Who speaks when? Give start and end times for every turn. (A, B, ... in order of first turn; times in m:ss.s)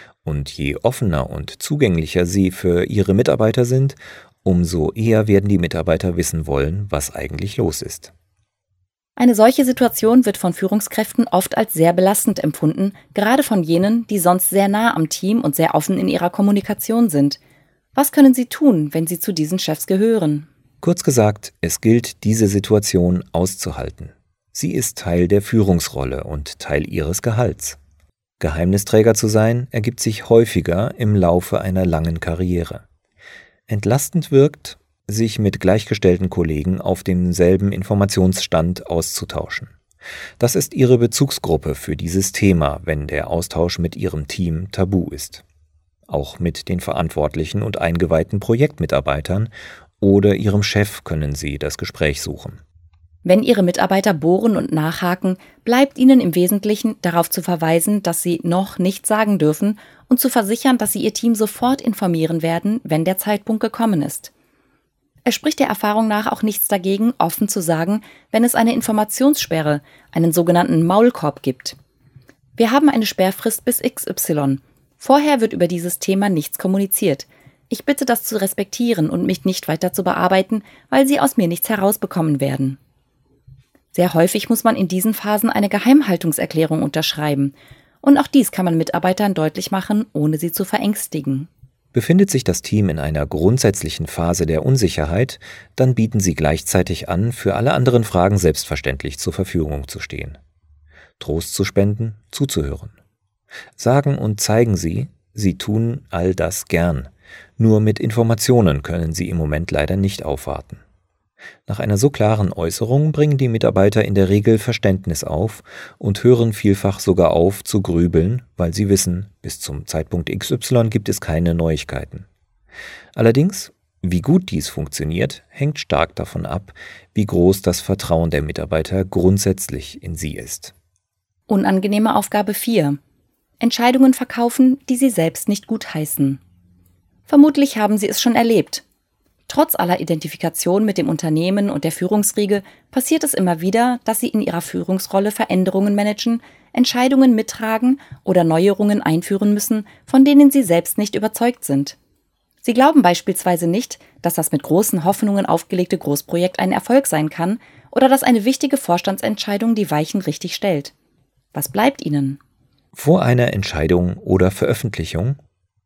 0:00.2-0:08.1 A
0:09.2-0:17.4 B
0:18.0-0:20.5 B
0:20.8-0:27.8 A
0:28.4-0:32.8 A
0:33.7-0:39.8 A
0:40.4-0:45.4 A
0:46.1-0:52.6 A
0:53.2-1:04.3 B
1:05.2-1:11.8 B
1:12.6-1:22.8 B
1:23.9-1:31.5 B
1:31.9-1:40.4 A
1:41.2-1:42.9 A
1:43.8-1:50.8 A
1:51.7-2:02.3 A
2:03.2-2:10.7 A
2:11.5-2:13.0 B
2:13.6-2:16.4 B
2:17.3-2:18.8 B
2:19.5-2:32.0 B
2:32.6-2:40.9 B
2:41.5-2:42.4 B
2:42.9-2:45.4 A